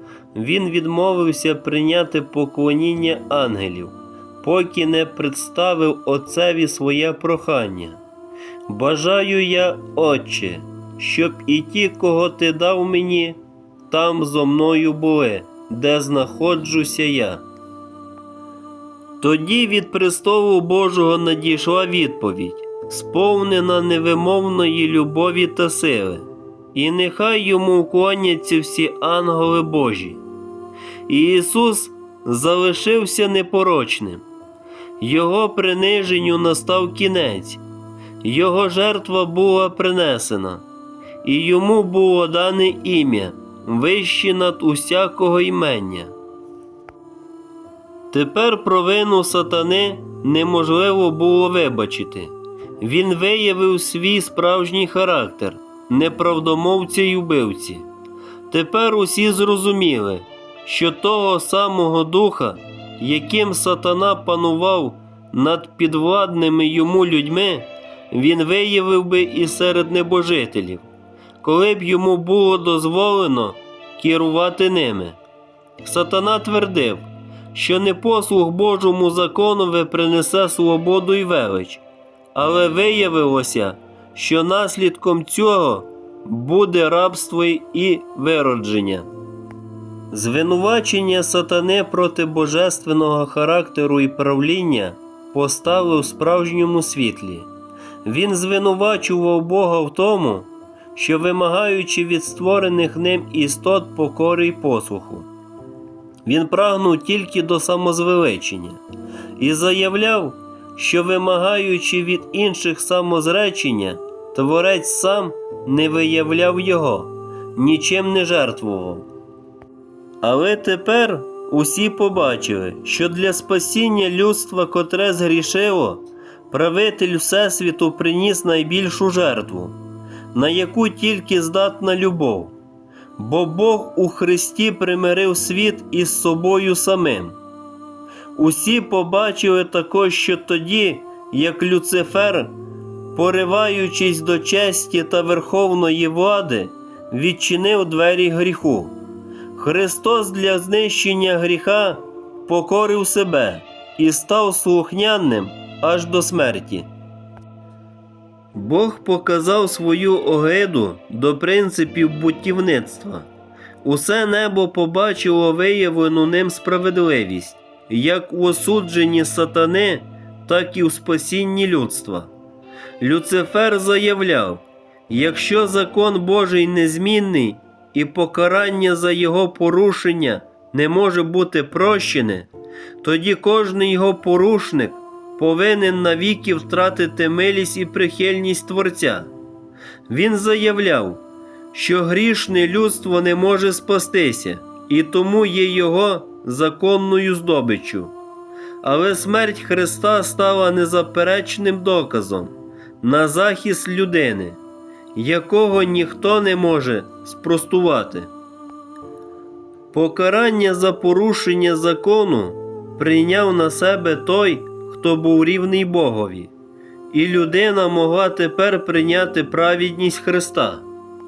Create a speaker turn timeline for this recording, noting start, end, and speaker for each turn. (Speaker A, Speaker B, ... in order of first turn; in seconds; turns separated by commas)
Speaker A: 0.3-8.0, Speaker A: 8.7-17.4, Speaker A: 19.2-30.2, Speaker A: 31.1-34.2, Speaker A: 35.0-37.6, Speaker A: 38.2-40.6, Speaker A: 41.2-46.1, Speaker A: 48.1-57.9, Speaker A: 58.5-70.8, Speaker A: 71.4-75.2, Speaker A: 75.8-89.1, Speaker A: 90.1-97.5, Speaker A: 98.0-105.3, Speaker A: 106.2-108.8, Speaker A: 109.4-119.1, Speaker A: 120.2-129.8, Speaker A: 130.3-132.5, Speaker A: 133.2-137.4, Speaker A: 138.3-142.5, Speaker A: 143.1-148.9, Speaker A: 149.5-156.9, Speaker A: 158.5-163.3, Speaker A: 163.8-172.3, Speaker A: 173.0-182.5, Speaker A: 183.0-189.3, Speaker A: 190.1-191.2, Speaker A: 191.7-198.1, Speaker A: 198.8-204.6, Speaker A: 205.1-208.3, Speaker A: 209.9-216.5, Speaker A: 217.1-220.8